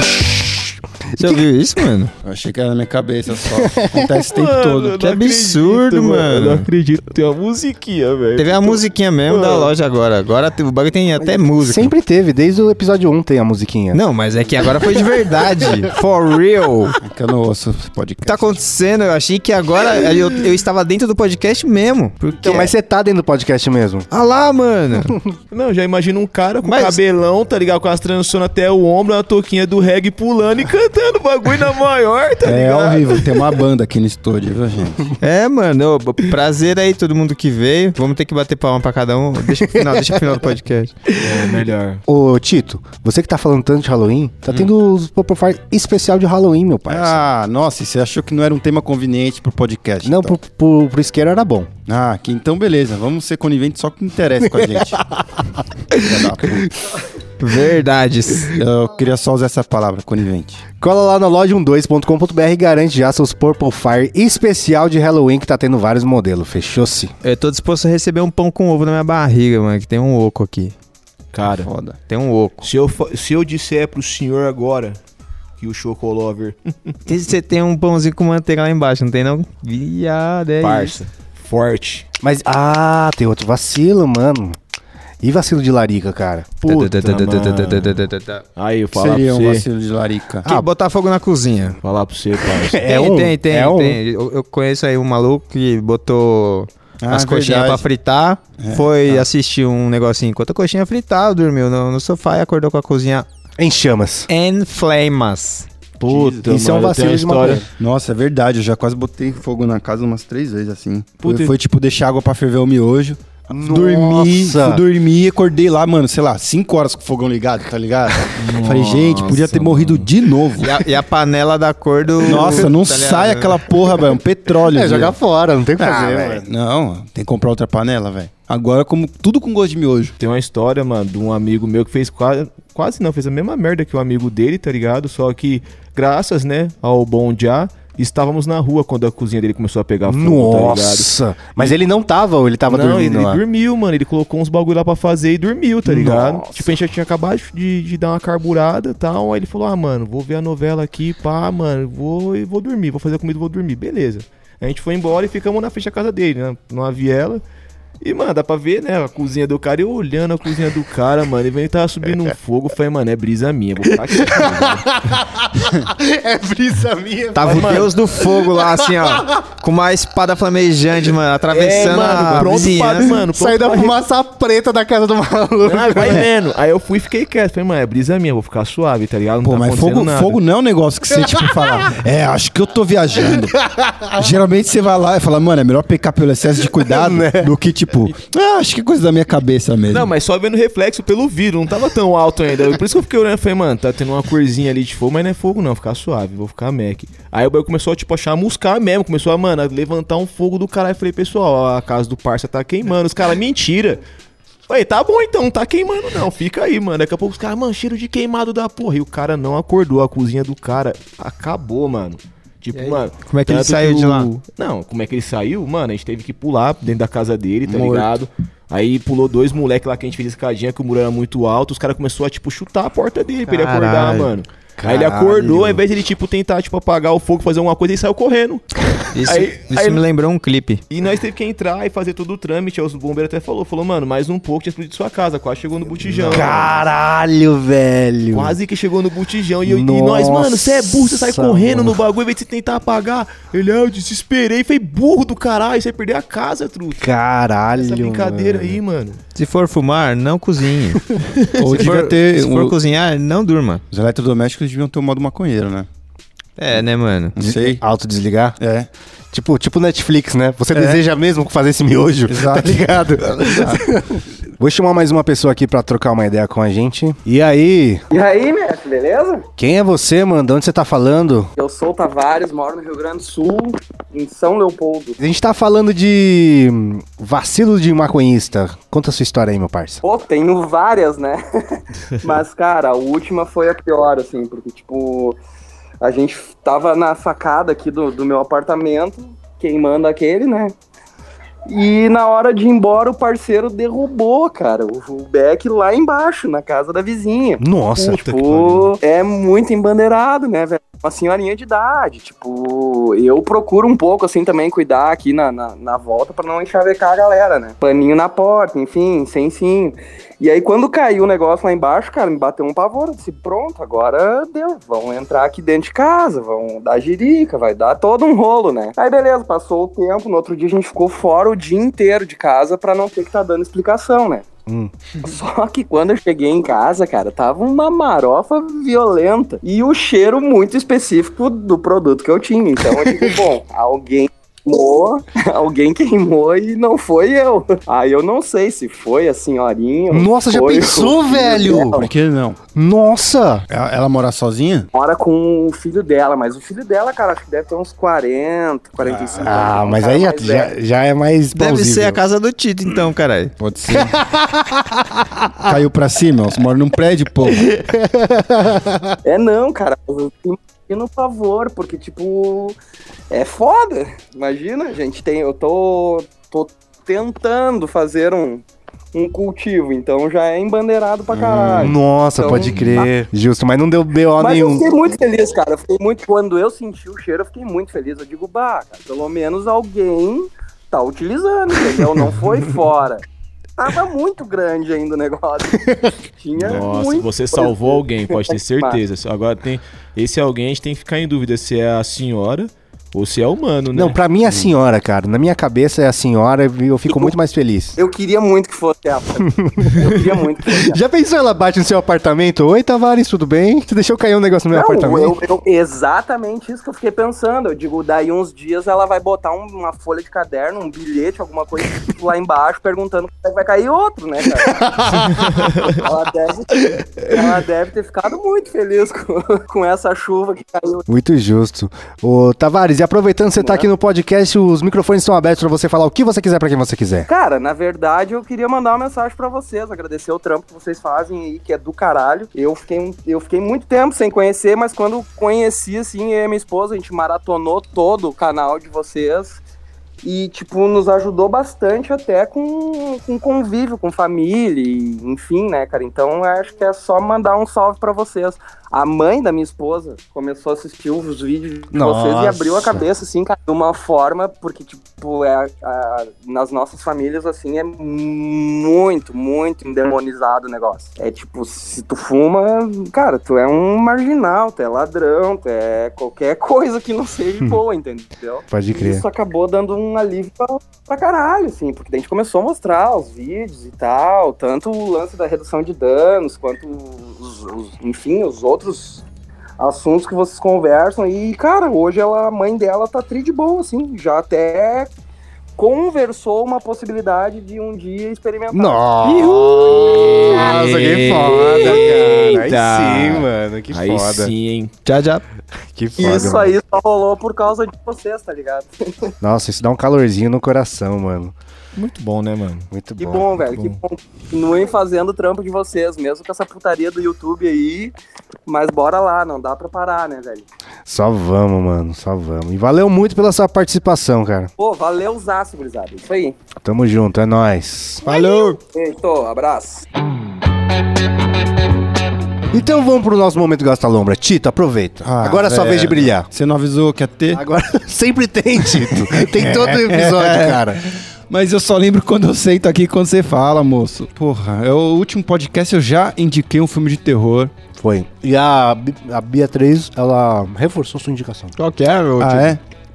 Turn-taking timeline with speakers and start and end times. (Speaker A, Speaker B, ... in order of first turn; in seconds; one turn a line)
Speaker A: 1.1-2.1
Speaker B: 2.2-5.0
Speaker C: 4.2-9.7
Speaker A: 5.0-6.7
Speaker A: 8.4-11.9
Speaker D: 11.2-14.0
Speaker A: 13.9-16.9
Speaker B: 17.0-18.6
Speaker A: 18.2-22.7
Speaker D: 22.4-24.1
Speaker A: 24.1-25.1
Speaker D: 25.1-25.3
Speaker C: 25.5-33.4
Speaker A: 26.6-27.0
Speaker B: 32.4-35.1
Speaker A: 35.2-40.9
Speaker C: 41.2-42.0
Speaker D: 42.1-47.2
Speaker B: 46.9-50.4
Speaker D: 50.0-51.7
Speaker B: 51.9-56.7
Speaker D: 54.5-54.9
Speaker D: 55.9-56.7
Speaker A: 57.4-58.5
Speaker B: 58.5-60.6
Speaker D: 60.8-67.1
Speaker A: 67.2-70.7
Speaker C: 71.3-71.7
Speaker B: 71.5-72.0
Speaker A: 72.1-72.7
Speaker C: 72.6-75.0
Speaker C: 75.6-76.9
Speaker A: 77.0-81.0
Speaker C: 80.6-82.0
Speaker D: 82.2-84.6
Speaker D: 85.2-86.6
Speaker C: 86.6-88.0
Speaker A: 86.6-88.4
Speaker C: 88.5-89.6
Speaker B: 88.9-90.5
Speaker A: 90.4-91.8
Speaker C: 91.8-92.8
Speaker D: 92.4-94.0
Speaker A: 92.8-103.3
Speaker B: 97.0-97.8
Speaker B: 98.6-99.2
Speaker D: 103.6-104.3
Speaker A: 104.3-105.7
Speaker C: 106.0-107.6
Speaker B: 106.1-106.4
Speaker D: 106.5-107.7
Speaker B: 107.8-120.7
Speaker C: 111.2-111.5
Speaker D: 113.5-114.8
Speaker C: 118.4-120.1
Speaker A: 120.6-123.6
Speaker B: 122.2-125.2
Speaker D: 124.7-126.4
Speaker B: 125.8-130.1
Speaker C: 130.2-141.8
Speaker D: 140.1-143.4
Speaker C: 142.7-157.4
Speaker D: 145.8-146.7
Speaker C: 158.0-164.9
Speaker D: 164.1-167.9
Speaker A: 167.3-173.1
Speaker C: 167.4-167.9
Speaker D: 168.4-169.2
Speaker C: 171.5-174.0
Speaker D: 172.4-176.2
Speaker C: 175.6-180.4
Speaker B: 179.4-183.6
Speaker D: 181.2-181.9
Speaker D: 183.3-184.1
Speaker B: 184.2-190.1
Speaker D: 186.8-187.5
Speaker C: 189.9-204.0
Speaker C: 204.7-228.7
Speaker A: 212.7-214.3
Speaker A: 217.7-218.1
Speaker A: 223.4-224.3
Speaker D: 224.8-225.8
Speaker A: 229.1-230.8
Speaker C: 229.2-230.0
Speaker C: 230.9-236.8
Speaker D: 236.3-238.6
Speaker C: 238.3-247.1
Speaker D: 239.7-242.0
Speaker D: 247.0-248.8
Speaker C: 247.7-249.2
Speaker A: 249.3-251.0
Speaker B: 251.6-252.8
Speaker A: 251.7-253.8
Speaker B: 253.9-255.9
Speaker A: 256.6-257.4
Speaker B: 257.4-257.8
Speaker D: 257.4-258.6
Speaker B: 258.6-258.9
Speaker D: 259.3-268.0
Speaker B: 260.7-261.0
Speaker B: 262.3-263.8
Speaker E: 268.1-269.4
Speaker D: 269.6-271.5
Speaker E: 271.6-275.2
Speaker D: 275.2-280.0
Speaker E: 280.0-285.4
Speaker E: 286.0-290.7
Speaker E: 291.7-324.4
Speaker D: 297.6-298.9
Speaker E: 325.2-342.1
Speaker D: 332.9-333.3
Speaker D: 340.1-342.0
Speaker B: 341.8-342.6
Speaker D: 342.7-343.6
Speaker B: 343.7-344.9
Speaker E: 344.9-350.7
Speaker B: 349.0-349.4
Speaker D: 349.4-352.2
Speaker A: 351.5-353.5
Speaker B: 353.6-354.2
Speaker D: 353.9-355.8
Speaker B: 355.6-357.7
Speaker D: 357.6-358.8
Speaker E: 359.2-362.8
Speaker E: 363.3-373.1
Speaker B: 371.3-371.9
Speaker D: 371.8-374.9
Speaker B: 372.6-372.9
Speaker E: 374.4-383.2
Speaker E: 383.8-389.0
Speaker C: 386.6-394.2
Speaker D: 393.9-397.9
Speaker E: 397.1-397.3
Speaker E: 397.9-401.0
Speaker D: 399.4-405.4
Speaker E: 404.7-415.1
Speaker D: 414.8-415.3
Speaker E: 415.8-421.1
Speaker D: 421.1-427.3
Speaker E: 423.6-423.9
Speaker E: 427.3-439.6
Speaker E: 440.2-479.2
Speaker D: 451.9-453.1
Speaker D: 468.7-469.2
Speaker E: 479.8-485.1
Speaker E: 485.8-489.1
Speaker D: 488.7-494.5
Speaker A: 489.2-489.9
Speaker C: 490.0-494.9
Speaker A: 495.0-495.4
Speaker D: 495.9-496.8
Speaker E: 496.2-499.3
Speaker D: 499.4-501.5
Speaker C: 501.9-502.9
Speaker D: 502.9-503.9
Speaker E: 503.2-508.1
Speaker E: 508.6-510.7
Speaker D: 511.1-514.7
Speaker E: 514.8-516.5
Speaker D: 516.8-518.2
Speaker A: 518.2-518.8
Speaker E: 518.2-520.0
Speaker D: 522.7-526.5
Speaker B: 525.2-527.6
Speaker D: 527.5-531.0
Speaker B: 528.8-537.7
Speaker D: 538.0-541.7
Speaker A: 541.8-542.8
Speaker B: 542.4-542.8